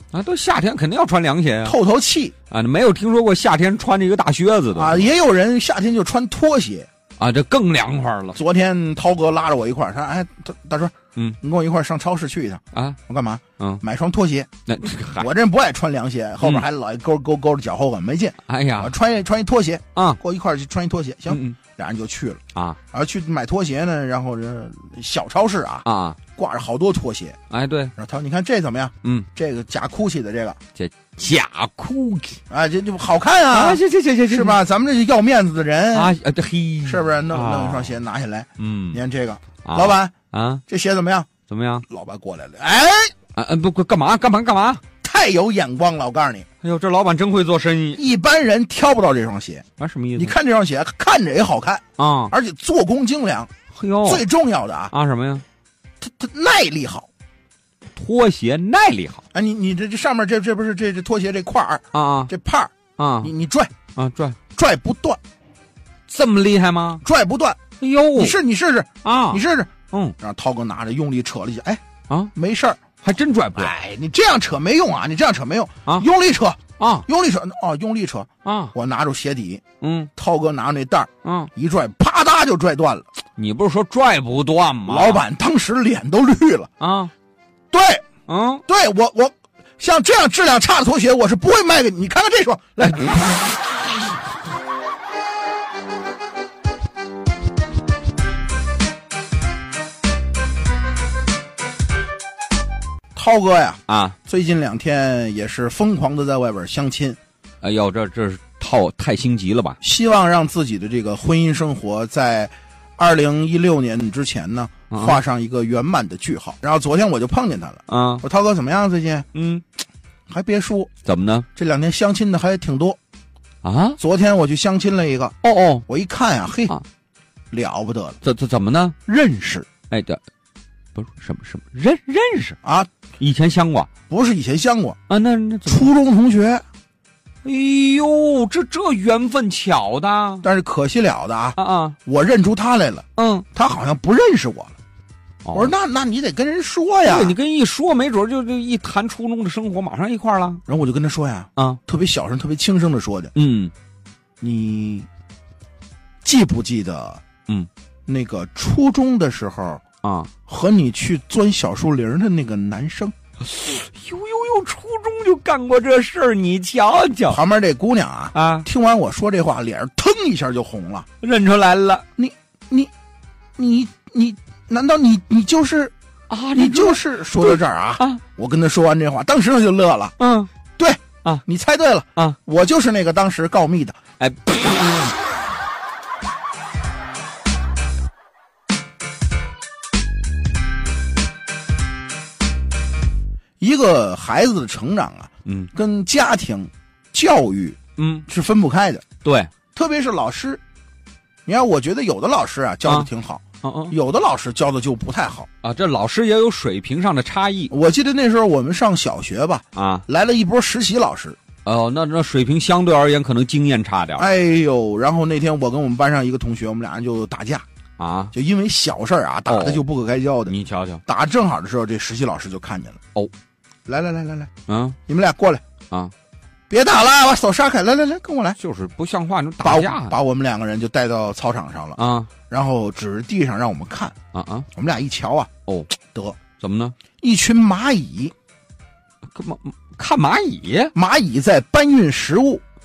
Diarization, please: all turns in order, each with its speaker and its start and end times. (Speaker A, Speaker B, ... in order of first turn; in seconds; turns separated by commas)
Speaker A: 0.1-1.8, Speaker B: 1.6-2.3, Speaker A: 2.5-5.1, Speaker B: 4.7-6.9, Speaker A: 7.2-8.4, Speaker B: 8.3-14.5, Speaker A: 14.7-15.3, Speaker B: 15.2-22.4, Speaker A: 18.5-18.9, Speaker A: 19.9-20.2, Speaker A: 21.3-21.6, Speaker B: 22.9-27.4, Speaker A: 25.8-26.2, Speaker A: 27.5-27.9, Speaker B: 27.9-30.6, Speaker A: 30.8-32.4, Speaker B: 32.5-36.2, Speaker A: 33.5-34.6, Speaker A: 35.9-38.0, Speaker B: 36.9-40.1, Speaker A: 38.6-39.0, Speaker A: 39.6-40.6, Speaker B: 40.7-41.3, Speaker A: 41.5-41.9, Speaker B: 41.9-43.1, Speaker A: 43.4-44.8, Speaker B: 45.0-46.5, Speaker A: 46.6-48.0, Speaker B: 47.9-49.6, Speaker A: 49.8-50.3, Speaker B: 50.1-53.5, Speaker A: 52.0-52.3, Speaker A: 53.7-54.2, Speaker B: 54.0-54.9, Speaker A: 54.9-55.4, Speaker B: 56.0-57.1, Speaker A: 58.0-59.2, Speaker B: 59.3-63.7, Speaker A: 61.9-62.3, Speaker A: 63.0-63.3, Speaker A: 63.9-64.4, Speaker B: 64.5-65.2, Speaker A: 66.1-67.0, Speaker B: 67.0-67.6, Speaker A: 67.8-68.4, Speaker B: 68.1-71.8, Speaker A: 69.0-70.1, Speaker B: 72.3-72.8, Speaker A: 73.0-73.8, Speaker B: 73.6-79.6, Speaker A: 76.8-77.1, Speaker A: 78.4-78.7, Speaker A: 79.8-80.1, Speaker B: 80.2-83.1, Speaker A: 81.2-81.5, Speaker A: 83.4-85.2, Speaker B: 84.8-86.7, Speaker A: 86.8-87.1, Speaker B: 87.7-88.0, Speaker A: 88.3-88.6, Speaker B: 88.7-93.4, Speaker B: 103.1-107.2, Speaker A: 103.9-104.2, Speaker A: 107.6-109.8, Speaker B: 109.8-119.2, Speaker A: 114.9-115.2, Speaker A: 117.9-118.2, Speaker A: 119.3-119.6, Speaker B: 120.3-120.9, Speaker A: 121.0-121.5, Speaker B: 121.5-123.0, Speaker A: 123.6-124.0, Speaker B: 124.0-125.3, Speaker A: 125.4-125.8, Speaker B: 125.9-126.8, Speaker B: 127.5-128.2, Speaker A: 128.2-128.9, Speaker B: 129.1-129.7, Speaker A: 129.9-130.2, Speaker A: 130.9-132.6, Speaker B: 132.6-132.9, Speaker A: 133.2-133.9, Speaker B: 134.1-135.0, Speaker A: 135.1-135.9, Speaker B: 135.7-136.6, Speaker A: 137.4-140.4, Speaker B: 140.4-144.8, Speaker A: 141.6-142.0, Speaker A: 143.2-143.4, Speaker A: 145.4-145.7, Speaker B: 145.5-147.4, Speaker A: 147.0-150.6, Speaker B: 150.7-153.3, Speaker A: 153.3-153.7, Speaker B: 154.4-155.1, Speaker B: 156.2-157.2, Speaker B: 158.1-159.8, Speaker A: 160.0-160.3, Speaker B: 160.5-163.1, Speaker A: 163.4-167.4, Speaker B: 167.3-171.1, Speaker A: 168.3-168.7, Speaker A: 171.2-172.1, Speaker B: 172.2-172.9, Speaker B: 173.6-175.9, Speaker A: 176.3-178.2, Speaker B: 176.5-180.1, Speaker A: 180.2-180.5, Speaker B: 180.8-184.0, Speaker A: 184.2-185.1, Speaker B: 193.6-199.0, Speaker A: 195.4-195.7, Speaker A: 198.0-198.2, Speaker A: 199.2-199.5, Speaker B: 199.7-200.6, Speaker B: 201.4-205.5, Speaker A: 203.6-203.9, Speaker A: 205.6-207.7, Speaker B: 207.7-211.4, Speaker A: 209.8-210.1, Speaker A: 211.6-214.3, Speaker B: 214.2-217.6, Speaker A: 218.0-218.3, Speaker B: 218.3-220.6, Speaker A: 219.5-219.8, Speaker A: 220.5-221.0, Speaker B: 221.1-223.0, Speaker B: 223.9-224.5, Speaker A: 224.7-225.0, Speaker B: 225.1-225.6, Speaker B: 226.7-228.6, Speaker A: 228.6-230.2, Speaker B: 229.6-234.1, Speaker A: 232.0-232.3, Speaker A: 234.3-234.7, Speaker B: 234.8-235.5, Speaker B: 236.1-236.4, Speaker A: 236.6-236.9, Speaker B: 237.2-238.3, Speaker A: 239.3-240.9, Speaker B: 240.9-242.6